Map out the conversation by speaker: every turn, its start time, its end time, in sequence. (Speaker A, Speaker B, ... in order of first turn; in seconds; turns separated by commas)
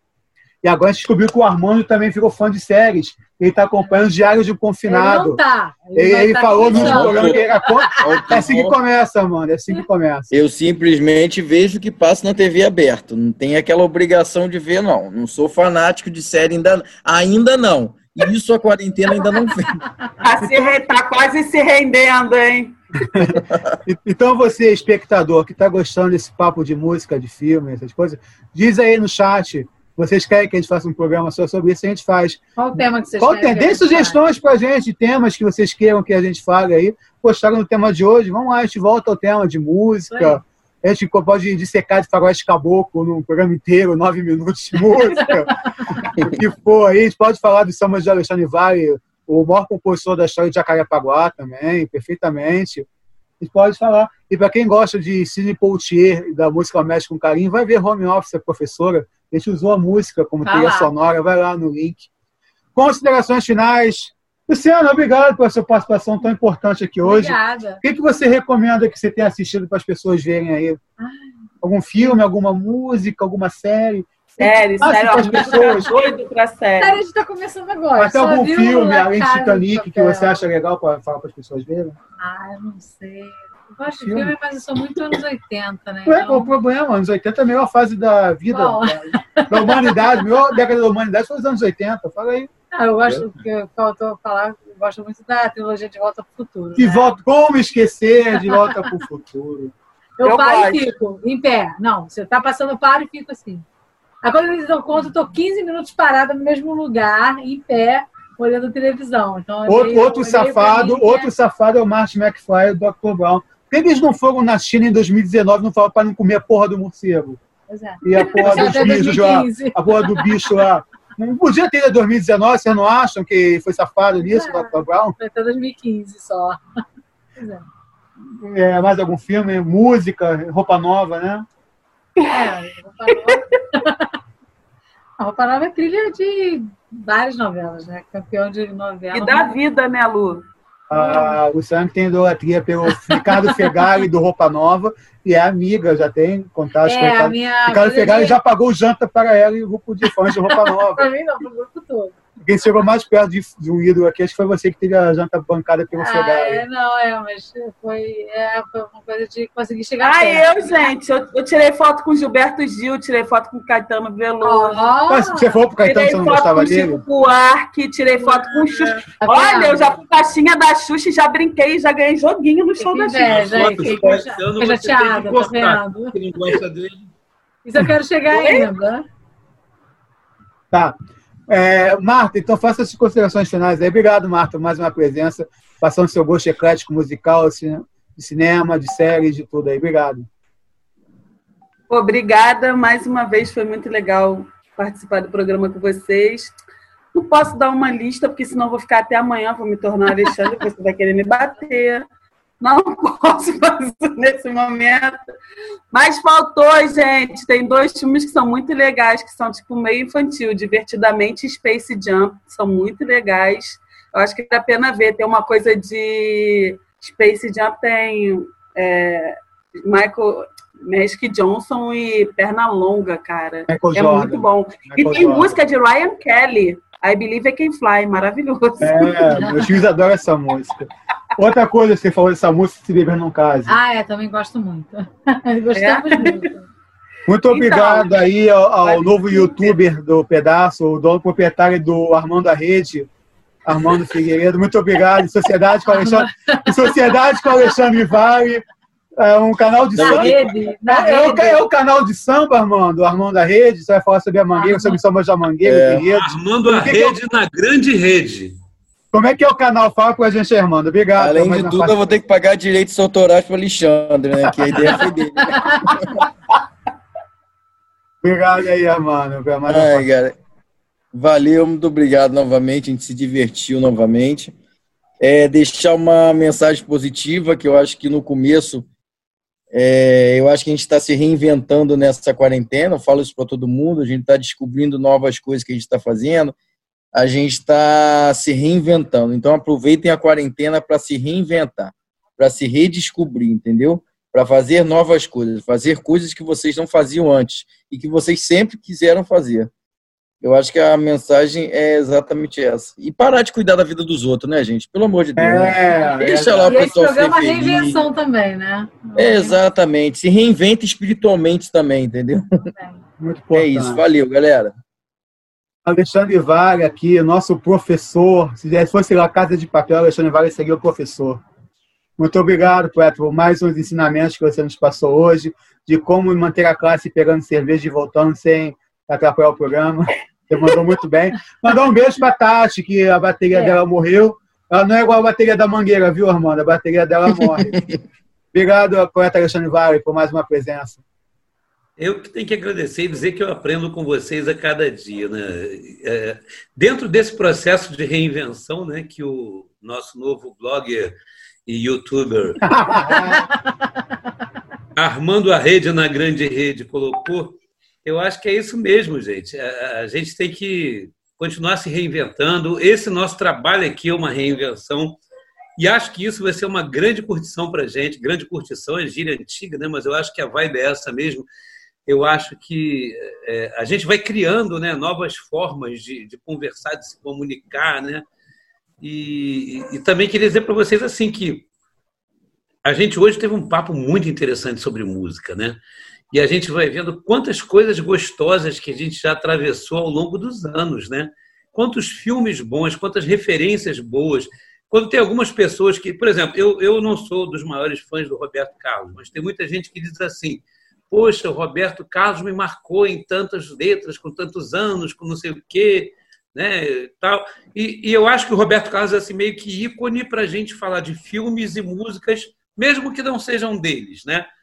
Speaker A: 0.6-5.4, Speaker B: 4.9-8.2, Speaker A: 5.9-10.3, Speaker C: 6.7-7.5, Speaker C: 8.0-8.8, Speaker C: 10.3-19.8, Speaker D: 20.2-23.3, Speaker A: 23.1-52.9, Speaker C: 23.4-23.8, Speaker B: 32.6-34.2, Speaker B: 40.1-40.4, Speaker C: 46.1-46.4, Speaker A: 53.4-62.1, Speaker B: 60.4-60.9, Speaker A: 62.8-70.8, Speaker B: 67.0-67.8, Speaker B: 71.0-71.3, Speaker A: 71.6-76.2, Speaker D: 74.4-77.0, Speaker B: 75.2-75.8, Speaker B: 76.8-80.4, Speaker A: 78.0-82.0, Speaker B: 82.2-86.5, Speaker A: 83.9-84.3, Speaker A: 86.1-92.5, Speaker B: 88.5-90.4, Speaker B: 92.7-97.2, Speaker E: 93.1-93.4, Speaker A: 96.8-99.7, Speaker B: 98.5-98.9, Speaker B: 100.2-103.7, Speaker D: 100.2-100.9, Speaker B: 104.2-111.3, Speaker A: 109.7-117.4, Speaker B: 117.7-120.6, Speaker A: 118.0-125.2, Speaker B: 124.2-126.6, Speaker B: 127.4-127.7, Speaker A: 128.4-131.5, Speaker D: 132.2-132.5, Speaker B: 132.3-134.1, Speaker D: 133.1-133.6, Speaker B: 135.2-139.6, Speaker D: 139.1-140.4, Speaker A: 140.9-151.1, Speaker B: 141.0-141.4, Speaker B: 143.1-144.0, Speaker B: 146.8-148.4, Speaker B: 150.3-152.2, Speaker A: 152.4-156.6, Speaker B: 155.9-160.9, Speaker D: 160.0-164.8, Speaker B: 164.4-165.5, Speaker A: 165.1-167.0, Speaker D: 165.8-173.8, Speaker E: 168.5-169.0, Speaker B: 169.2-169.9, Speaker B: 172.8-176.2, Speaker E: 173.2-177.1, Speaker B: 177.7-179.1, Speaker D: 178.3-178.8, Speaker A: 181.5-190.3, Speaker D: 191.9-196.5, Speaker D: 197.1-202.1, Speaker D: 202.6-205.2, Speaker D: 205.9-229.5, Speaker A: 223.7-225.6, Speaker A: 228.8-233.8, Speaker B: 233.7-236.7, Speaker D: 235.7-236.5, Speaker A: 237.3-243.1, Speaker D: 237.5-238.2, Speaker D: 238.8-239.8, Speaker A: 243.7-248.6, Speaker B: 245.9-247.7, Speaker A: 249.2-257.2, Speaker B: 250.0-251.6, Speaker E: 250.0-250.4, Speaker B: 254.6-255.0, Speaker C: 255.6-256.0, Speaker E: 256.1-258.6, Speaker A: 259.1-262.1, Speaker C: 261.2-266.2, Speaker A: 264.5-265.0, Speaker B: 265.5-265.8, Speaker A: 268.2-270.1, Speaker C: 269.7-270.4, Speaker C: 271.1-274.5, Speaker C: 275.2-278.9, Speaker C: 279.7-286.6, Speaker C: 287.1-299.7, Speaker C: 300.4-308.1, Speaker A: 305.4-306.9, Speaker B: 306.6-309.6, Speaker C: 309.2-312.7, Speaker A: 313.2-314.0, Speaker C: 313.5-314.7, Speaker A: 315.9-321.4, Speaker A: 322.2-337.8, Speaker C: 337.4-338.0, Speaker A: 338.5-341.0, Speaker E: 342.0-351.1, Speaker E: 351.7-352.7, Speaker A: 352.6-353.5, Speaker E: 355.0-365.2, Speaker E: 365.8-371.5, Speaker E: 372.1-378.2, Speaker E: 379.0-381.7, Speaker E: 382.9-385.8, Speaker E: 386.3-414.5